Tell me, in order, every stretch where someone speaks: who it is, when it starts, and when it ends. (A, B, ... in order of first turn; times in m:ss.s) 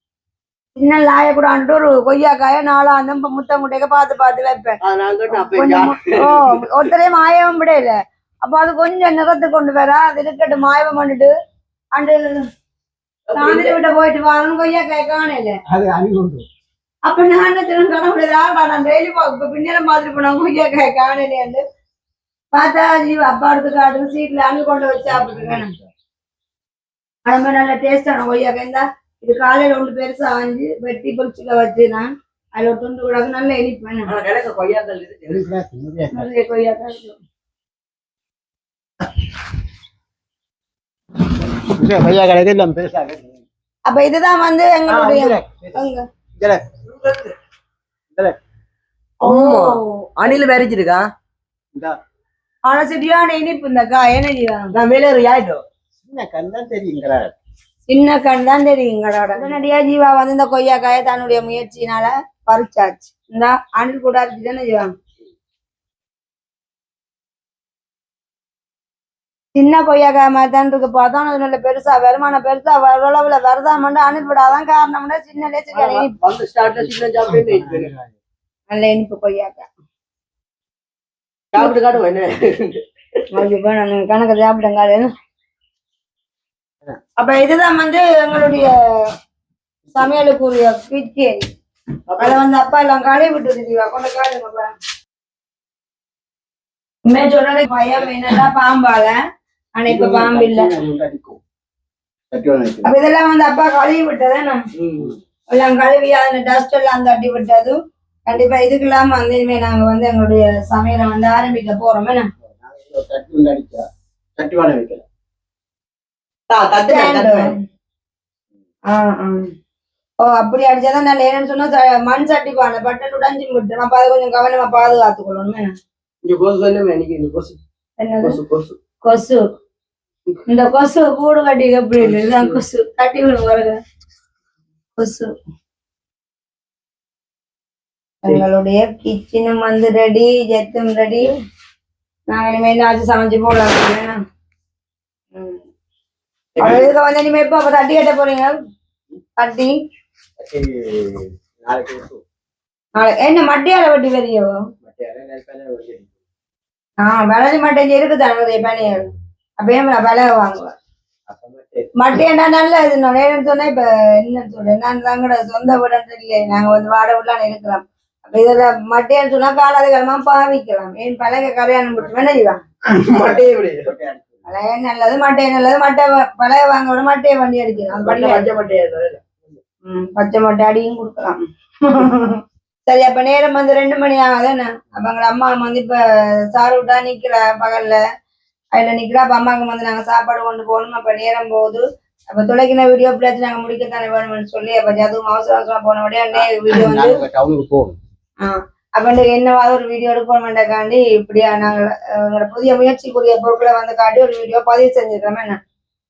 0:00.8-0:04.7 A
0:04.8-0:06.6 B
0:05.3-0:11.3 A
0:11.9-0:12.4 A
0:13.3-0:13.7 B
0:13.3-0:15.6 A
0:15.7-0:16.4 C
0:17.0-0:21.6 A
0:22.5-0:25.7 A
0:25.1-0:25.9 C
0:27.2-0:34.1 A
0:34.1-0:35.4 B
0:35.3-0:36.3 C
0:36.1-0:37.2 A
0:41.6-0:43.4 C
0:43.9-0:46.0 A
0:44.9-0:45.8 C
0:46.9-0:47.3 B
0:49.2-0:51.0 B
0:49.2-0:50.4 A
0:52.6-0:54.6 A
0:54.7-0:55.6 B
0:56.0-0:57.3 C
0:57.9-1:04.9 A
1:09.5-1:16.1 A
1:15.7-1:17.9 B
1:16.6-1:18.2 C
1:18.7-1:19.6 A
1:21.5-1:22.8 B
1:23.3-1:25.1 A
1:27.2-1:28.7 A
1:29.9-1:31.4 A
1:32.1-1:32.4 B
1:32.2-1:34.7 A
1:37.1-1:39.1 A
1:39.8-1:40.7 A
1:39.9-1:41.4 C
1:42.3-1:42.9 C
1:42.8-1:44.6 A
1:44.8-1:45.1 B
1:45.5-1:52.2 A
1:52.5-1:53.8 C
1:54.4-1:55.0 C
1:56.5-1:57.5 B
1:56.8-1:57.5 A
1:58.9-1:59.4 A
2:00.2-2:05.7 A
2:06.2-2:07.6 B
2:08.0-2:08.4 A
2:08.2-2:08.8 B
2:09.0-2:09.4 A
2:10.5-2:13.8 A
2:12.1-2:12.5 B
2:15.0-2:15.3 A
2:18.2-2:21.3 A
2:22.3-2:24.2 A
2:25.3-2:25.6 A
2:26.6-2:28.6 A
2:29.4-2:29.7 A
2:30.4-2:32.2 C
2:33.0-2:34.5 A
2:34.8-2:36.1 C
2:37.0-2:39.1 A
2:39.6-2:40.8 A
2:41.3-2:41.9 C
2:42.0-2:52.6 A
2:52.9-2:53.9 B
2:53.1-2:54.4 C
2:54.5-2:58.4 A
2:57.9-2:59.6 B
2:59.8-3:06.0 A
3:06.5-3:08.0 A
3:08.7-3:17.2 A
3:16.3-3:18.0 C
3:18.4-3:25.6 A